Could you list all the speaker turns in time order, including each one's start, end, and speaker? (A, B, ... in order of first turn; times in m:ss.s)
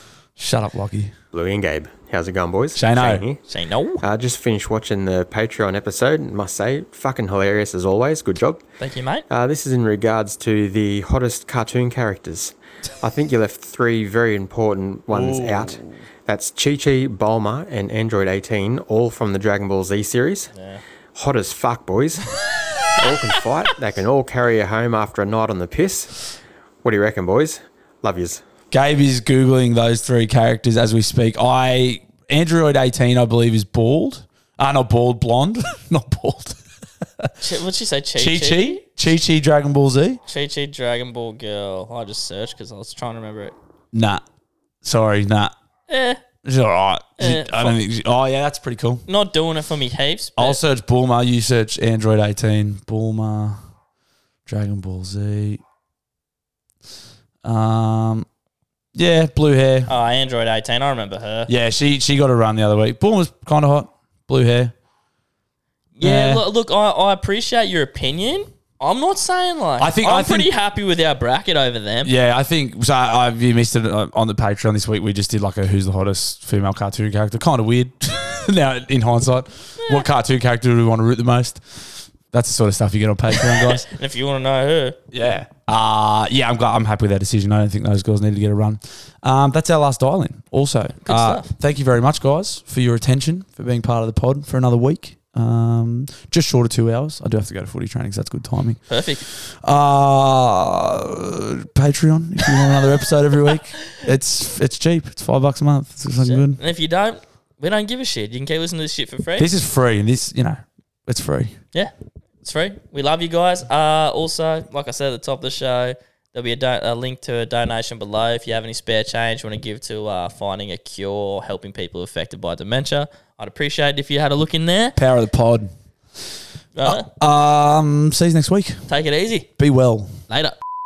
0:00.4-0:01.1 A
0:01.3-0:03.4 B
0:02.8-0:03.2 A
0:03.5-0:04.0 C
0:04.0-0:08.6 B
0:08.8-0:09.3 C
0:09.3-0:20.5 B
0:15.1-0:16.0 A
0:20.6-0:20.8 C
0:21.2-0:22.2 B
0:23.0-0:26.1 B
0:26.8-0:28.4 B
0:28.7-0:36.6 A
0:37.4-0:38.8 C
0:38.2-0:40.2 A
0:40.3-0:43.6 C
0:43.9-0:44.2 A
0:44.8-0:45.5 A
0:45.9-0:46.2 C
0:46.4-0:49.0 A
0:47.2-0:47.8 C
0:49.1-0:50.6 C
0:50.4-0:53.6 A
0:54.5-0:55.6 A
0:57.4-0:58.3 A
0:59.0-0:59.9 A
0:59.9-1:01.5 C
1:01.5-1:04.7 A
1:06.0-1:12.1 C
1:06.0-1:06.4 A
1:09.8-1:10.5 A
1:12.0-1:23.9 A
1:23.3-1:25.0 C
1:25.1-1:46.6 A
1:31.0-1:31.5 C
1:38.9-1:39.2 C
1:46.2-1:49.5 C
1:49.4-1:51.6 A
1:51.7-2:05.0 C
2:05.0-2:05.7 A
2:06.8-2:07.1 C
2:06.8-2:08.8 A
2:08.9-2:09.5 C
2:09.6-2:10.2 A
2:10.3-2:10.6 C